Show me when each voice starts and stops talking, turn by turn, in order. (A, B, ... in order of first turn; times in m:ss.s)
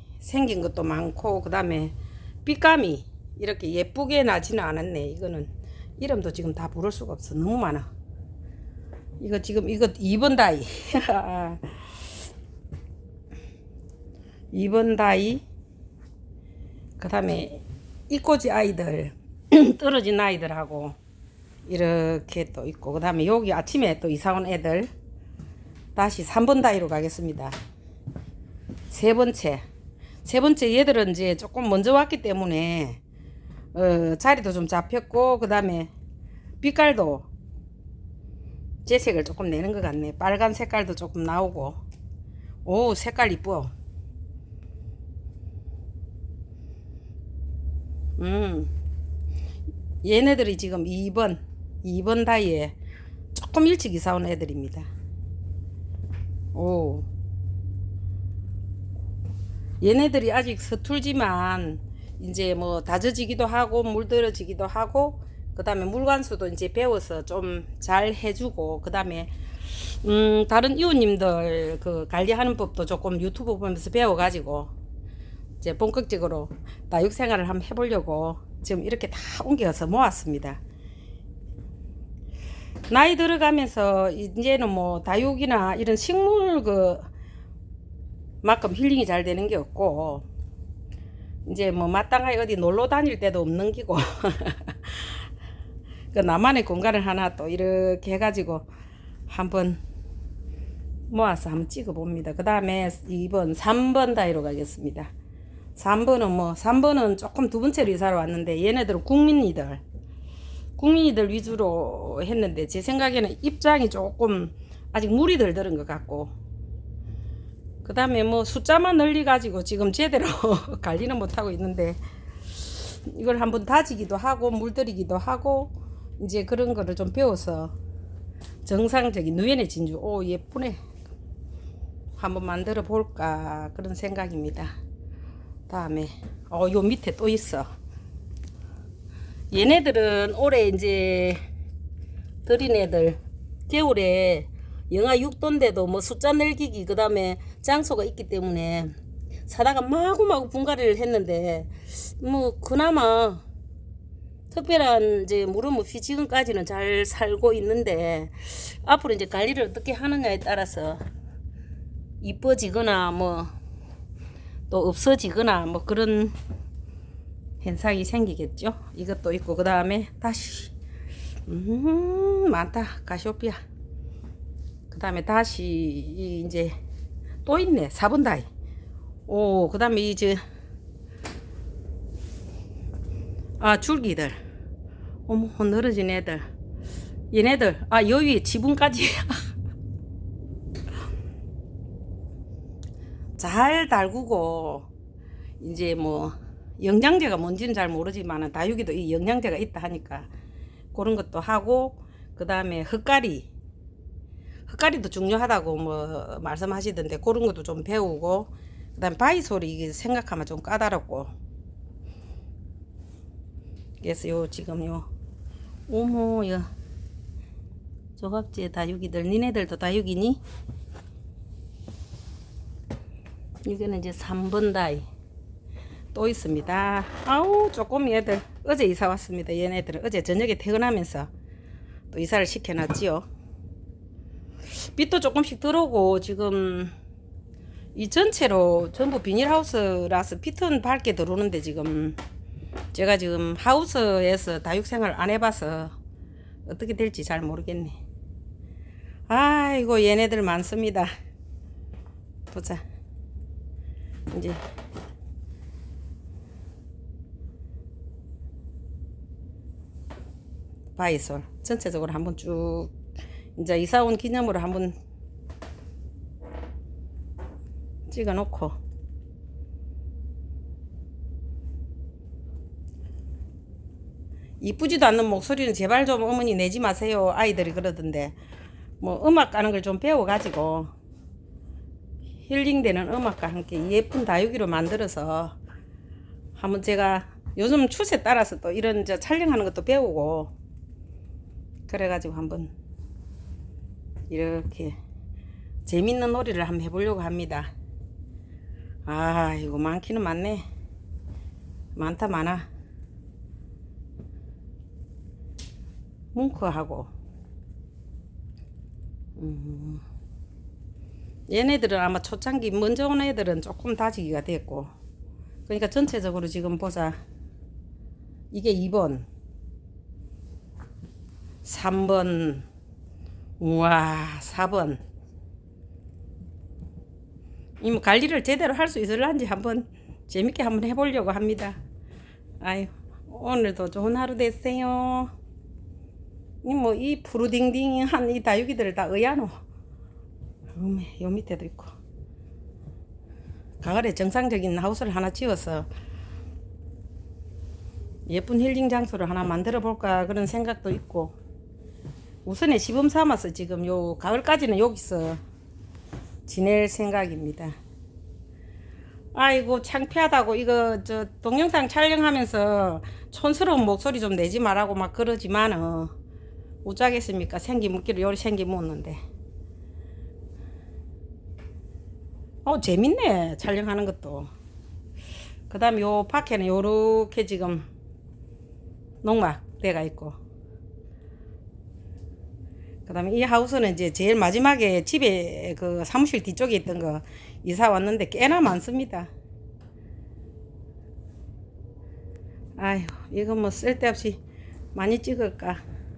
0:00.2-0:07.9 A
0:09.2-0:11.8 A
0:14.5-0:15.4 A
0:17.0-0:21.0 A
0:21.7-0:24.9 A
0:26.0-0:27.5 A
0:28.9-0:29.6 A
0:30.2-0:33.0 A
0:33.7-0:35.9 A
0:36.6-0:37.3 A
0:38.8-0:41.8 A
0:42.6-0:43.7 A
0:48.2-0:48.7 A
0:50.0-0:52.7 A
0:53.3-0:54.9 A
0:56.5-0:57.1 A
0:59.8-1:14.7 A
1:15.6-1:20.6 A
1:22.9-1:27.1 A
1:28.4-1:30.2 A
1:31.4-1:35.3 A
1:36.1-1:38.6 A
1:39.3-1:39.8 A
1:41.1-1:45.1 A
1:45.8-1:49.8 A
1:50.8-1:56.3 A
1:57.8-2:02.0 A
2:02.6-2:07.7 A
2:08.6-2:10.8 A
2:12.2-2:14.7 A
2:15.7-2:17.7 A
2:19.5-2:21.4 A
2:22.4-2:28.9 A
2:29.5-2:33.4 A
2:34.5-2:41.0 A
2:42.2-2:43.5 A
2:44.7-2:46.4 A
2:47.6-2:50.7 A
2:51.5-2:53.6 A
2:54.9-2:56.8 A
2:57.4-2:58.5 A
2:59.3-3:00.4 A
3:03.6-3:04.4 A
3:05.3-3:06.4 A
3:07.3-3:09.4 A
3:13.4-3:14.9 A
3:15.6-3:20.3 A
3:20.9-3:23.5 A
3:24.7-3:31.3 A
3:34.0-3:35.1 A
3:35.9-3:36.7 A
3:38.2-3:40.4 A
3:43.6-3:45.0 A
3:46.1-3:51.3 A
3:52.1-3:53.2 A
3:54.7-3:56.9 A
3:57.9-4:02.2 A
4:02.9-4:05.9 A
4:06.6-4:07.9 A
4:09.3-4:11.1 A
4:12.5-4:12.8 A
4:14.3-4:14.6 A
4:21.0-4:22.9 A
4:23.6-4:24.9 A
4:28.1-4:28.8 A
4:34.6-4:38.3 A
4:39.0-4:40.9 A
4:42.4-4:45.6 A
4:46.6-4:50.5 A
4:51.9-4:52.7 A
4:54.3-4:55.0 A
4:55.8-4:57.7 A
4:59.0-5:00.6 A
5:02.0-5:02.7 A
5:06.3-5:07.1 A
5:09.4-5:10.0 A
5:11.5-5:14.9 A
5:15.7-5:17.2 A
5:18.5-5:19.3 A
5:21.6-5:22.6 A
5:23.6-5:25.0 A
5:27.8-5:31.8 A
5:32.6-5:35.3 A
5:36.6-5:39.6 A
5:40.7-5:41.9 A
5:43.8-5:45.9 A
5:48.3-5:51.3 A
5:52.4-5:55.4 A
5:56.5-5:57.7 A
5:59.3-6:06.1 A
6:06.8-6:09.2 A
6:12.6-6:14.5 A
6:15.7-6:17.8 A
6:19.2-6:20.4 A
6:23.0-6:29.3 A
6:32.8-6:34.4 A
6:34.9-6:35.8 A